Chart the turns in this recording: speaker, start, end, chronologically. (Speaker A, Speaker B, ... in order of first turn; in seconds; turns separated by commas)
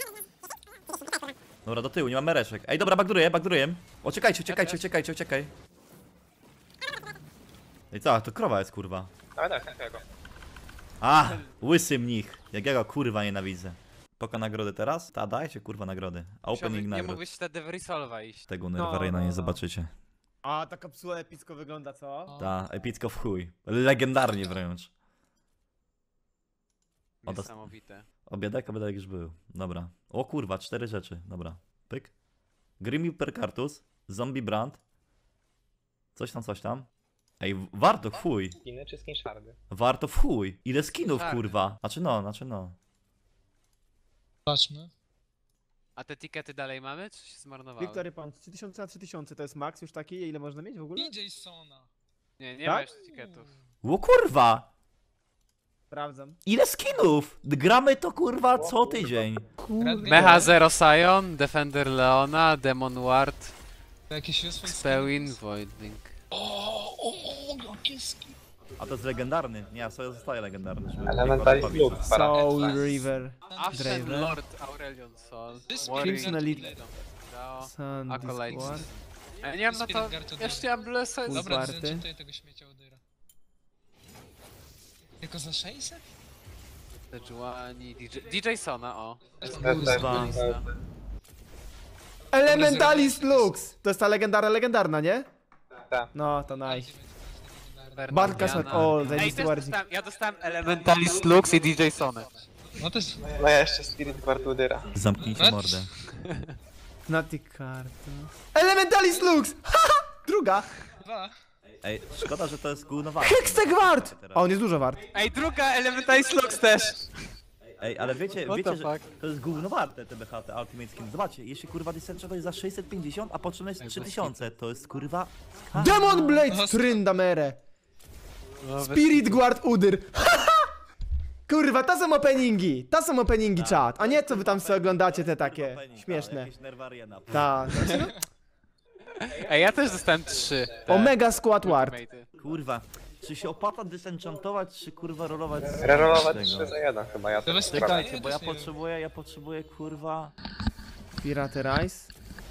Speaker A: 1.6-5.5, Speaker B: 4.5-4.9, Speaker A: 7.9-9.1, Speaker C: 9.4-10.1, Speaker A: 11.0-17.2, Speaker B: 16.5-18.5, Speaker A: 18.5-19.9, Speaker D: 18.8-19.6, Speaker D: 20.4-22.4, Speaker E: 22.3-22.5, Speaker A: 22.4-24.9, Speaker B: 27.2-28.1, Speaker A: 27.3-27.7, Speaker A: 28.3-32.1, Speaker A: 32.8-34.8, Speaker A: 36.2-36.9, Speaker A: 37.4-38.6, Speaker C: 38.6-39.6, Speaker A: 39.7-42.8, Speaker B: 41.0-41.6, Speaker E: 44.5-44.9, Speaker B: 46.0-48.0, Speaker D: 47.8-51.1, Speaker E: 51.0-51.9, Speaker B: 52.4-53.5, Speaker E: 53.1-53.6, Speaker A: 53.8-54.7, Speaker D: 55.9-56.4, Speaker A: 56.5-59.5, Speaker C: 58.5-59.1, Speaker D: 59.6-60.5, Speaker E: 59.8-60.5, Speaker B: 60.1-63.5, Speaker E: 64.1-65.3, Speaker B: 64.6-66.1, Speaker E: 66.3-68.3, Speaker A: 68.8-72.1, Speaker C: 71.1-72.8, Speaker D: 72.1-74.4, Speaker B: 72.3-73.0, Speaker E: 73.5-74.1, Speaker B: 73.6-81.5, Speaker E: 75.7-76.8, Speaker D: 75.9-76.8, Speaker D: 77.6-78.9, Speaker E: 79.7-80.7, Speaker D: 81.3-82.1, Speaker E: 81.3-83.0, Speaker E: 85.2-86.0, Speaker B: 87.1-90.6, Speaker E: 89.4-90.4, Speaker C: 89.5-90.7, Speaker A: 89.8-90.4, Speaker D: 92.3-95.3, Speaker E: 92.4-93.7, Speaker C: 95.8-96.1, Speaker D: 96.1-97.0, Speaker E: 96.7-99.4, Speaker B: 98.0-102.3, Speaker D: 98.1-99.8, Speaker A: 98.3-99.0, Speaker E: 102.7-103.2, Speaker C: 103.2-104.9, Speaker A: 104.9-105.9, Speaker E: 105.3-105.8, Speaker D: 107.1-110.7, Speaker E: 109.1-109.4, Speaker E: 111.0-111.3, Speaker A: 111.8-114.5, Speaker D: 113.2-115.0, Speaker B: 115.1-117.3, Speaker A: 117.8-126.1, Speaker B: 118.5-119.1, Speaker B: 123.8-124.3, Speaker D: 125.8-127.6, Speaker E: 126.5-127.0, Speaker B: 128.6-129.4, Speaker D: 128.8-130.7, Speaker D: 131.5-136.5, Speaker A: 133.6-137.9, Speaker D: 137.3-138.2, Speaker B: 139.3-142.3, Speaker D: 140.9-142.0, Speaker A: 142.4-146.8, Speaker C: 145.8-148.1, Speaker E: 147.5-148.7, Speaker A: 147.7-150.3, Speaker D: 151.2-152.1